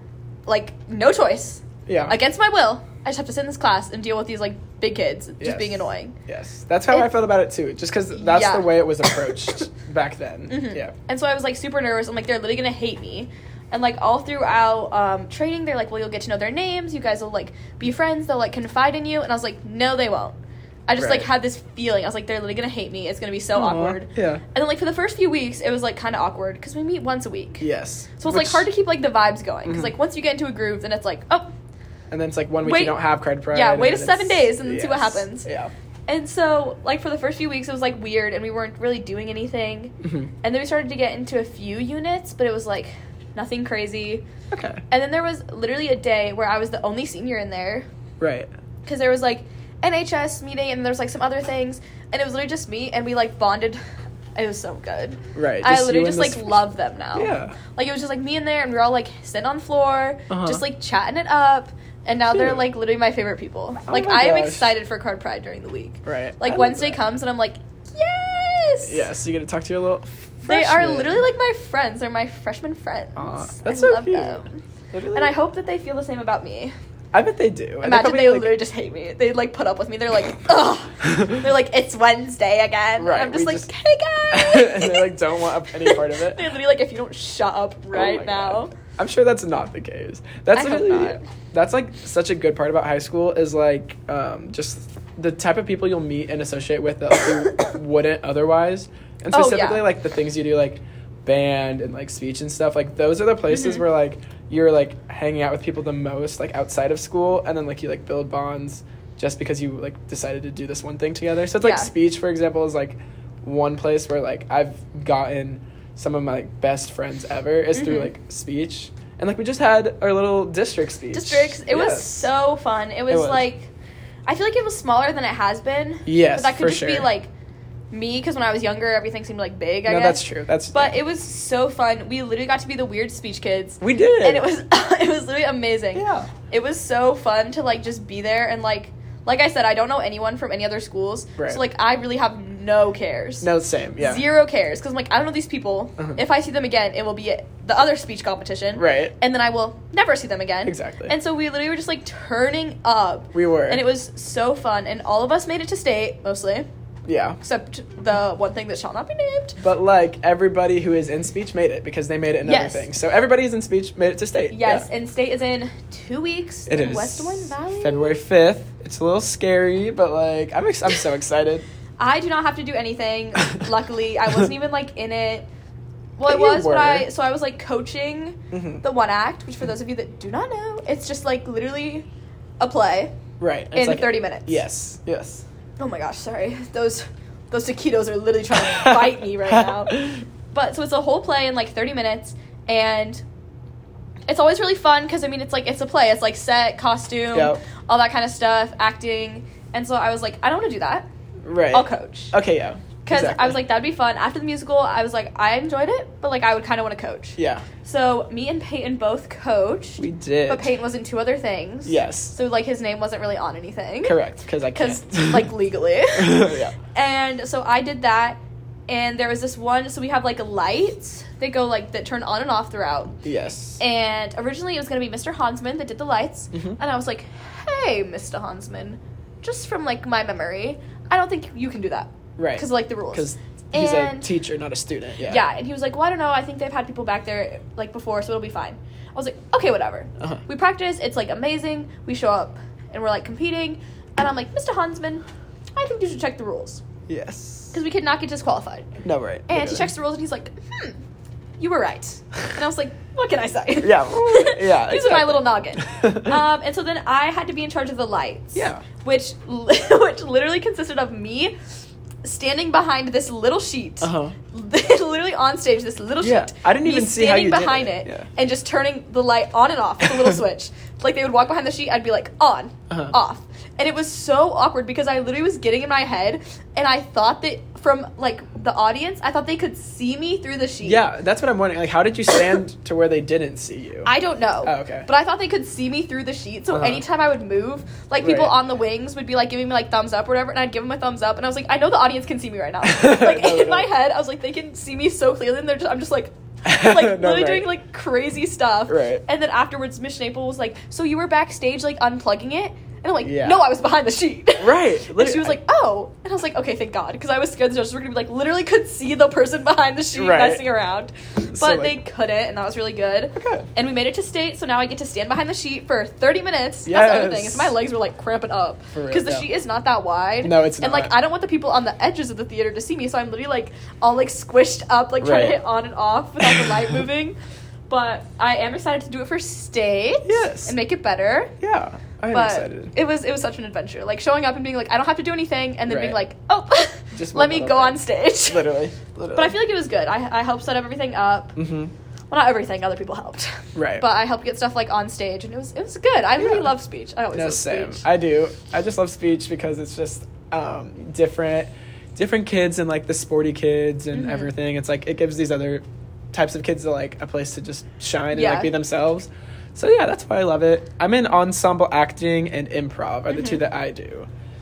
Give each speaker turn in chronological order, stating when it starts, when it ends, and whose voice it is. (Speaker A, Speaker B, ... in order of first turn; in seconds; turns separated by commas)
Speaker A: 0.5-6.2, Speaker B: 1.9-2.2, Speaker B: 5.4-10.9, Speaker A: 8.1-8.8, Speaker A: 10.5-27.7, Speaker B: 21.0-21.3, Speaker B: 23.6-24.4, Speaker B: 27.6-28.7, Speaker A: 28.2-31.5, Speaker B: 29.6-29.9, Speaker B: 32.1-35.7, Speaker A: 32.6-33.0, Speaker A: 33.5-35.5, Speaker A: 36.1-44.2, Speaker B: 40.0-40.3, Speaker B: 44.5-44.8, Speaker A: 44.9-47.9, Speaker B: 48.2-48.5, Speaker A: 48.9-53.8, Speaker A: 54.4-69.1, Speaker B: 55.4-57.6, Speaker B: 60.3-60.6, Speaker B: 62.3-62.6, Speaker B: 63.9-64.7, Speaker B: 66.0-67.1, Speaker B: 68.9-71.2, Speaker A: 70.5-74.6, Speaker B: 73.2-75.4, Speaker A: 75.1-76.7, Speaker B: 77.1-78.6, Speaker A: 77.8-88.7, Speaker B: 83.0-83.7, Speaker B: 84.3-86.5, Speaker B: 87.9-122.3, Speaker A: 90.5-91.2, Speaker A: 99.3-99.9, Speaker A: 103.5-103.8, Speaker A: 111.6-111.9, Speaker A: 117.7-118.1, Speaker A: 121.1-123.7, Speaker B: 123.1-123.5, Speaker A: 124.3-127.3, Speaker B: 126.1-127.1, Speaker A: 127.9-156.7, Speaker B: 129.9-131.0, Speaker B: 133.8-134.5, Speaker B: 135.9-136.3, Speaker B: 143.4-144.2, Speaker B: 148.8-149.1, Speaker B: 150.7-151.2, Speaker B: 153.3-153.8, Speaker B: 157.1-157.4, Speaker A: 157.4-159.6, Speaker B: 159.6-164.9, Speaker A: 162.4-162.9, Speaker A: 164.5-168.2, Speaker B: 166.7-171.7, Speaker A: 172.0-175.5, Speaker A: 176.2-182.1, Speaker B: 176.3-177.1, Speaker B: 178.5-178.8, Speaker A: 182.6-183.1, Speaker B: 183.4-185.4, Speaker A: 183.7-184.6, Speaker A: 185.8-193.2, Speaker B: 188.6-190.2, Speaker A: 194.3-201.1, Speaker B: 197.3-197.6, Speaker B: 201.4-203.6, Speaker A: 201.7-202.3, Speaker A: 203.1-214.2, Speaker B: 207.4-207.7, Speaker B: 210.0-210.7, Speaker B: 211.8-212.4, Speaker B: 214.0-215.5, Speaker A: 214.8-223.2, Speaker B: 216.1-216.8, Speaker B: 223.2-223.8, Speaker A: 223.8-234.3, Speaker B: 226.5-226.8, Speaker B: 232.4-235.4, Speaker A: 235.2-245.2, Speaker A: 245.8-246.8, Speaker B: 247.1-247.8, Speaker A: 247.7-248.9, Speaker B: 249.0-249.9, Speaker A: 249.5-251.0, Speaker A: 251.6-261.6, Speaker B: 253.8-256.4, Speaker B: 258.6-258.8, Speaker A: 262.2-281.0, Speaker B: 264.0-264.4, Speaker B: 266.2-268.3, Speaker B: 270.1-270.4, Speaker B: 280.8-284.1, Speaker A: 284.1-327.4, Speaker B: 284.6-285.1, Speaker B: 286.7-287.0, Speaker B: 288.2-288.6, Speaker B: 292.8-293.9, Speaker B: 296.6-297.7, Speaker B: 298.9-299.2, Speaker B: 303.2-303.7, Speaker B: 304.6-305.6, Speaker B: 310.1-310.7, Speaker B: 311.5-312.0, Speaker B: 313.3-313.7, Speaker B: 316.9-317.8, Speaker B: 318.9-319.5, Speaker B: 320.4-321.1, Speaker B: 325.2-325.6, Speaker B: 326.4-327.0, Speaker A: 327.9-331.5, Speaker B: 330.2-330.8, Speaker B: 331.6-332.9, Speaker A: 332.3-338.7, Speaker B: 335.9-336.2, Speaker B: 337.1-339.6, Speaker A: 339.3-341.6, Speaker B: 341.6-341.9, Speaker A: 342.3-348.0, Speaker B: 343.8-344.1, Speaker B: 346.4-346.7, Speaker B: 347.3-364.3, Speaker A: 354.1-354.5, Speaker A: 358.3-358.7, Speaker A: 363.3-363.6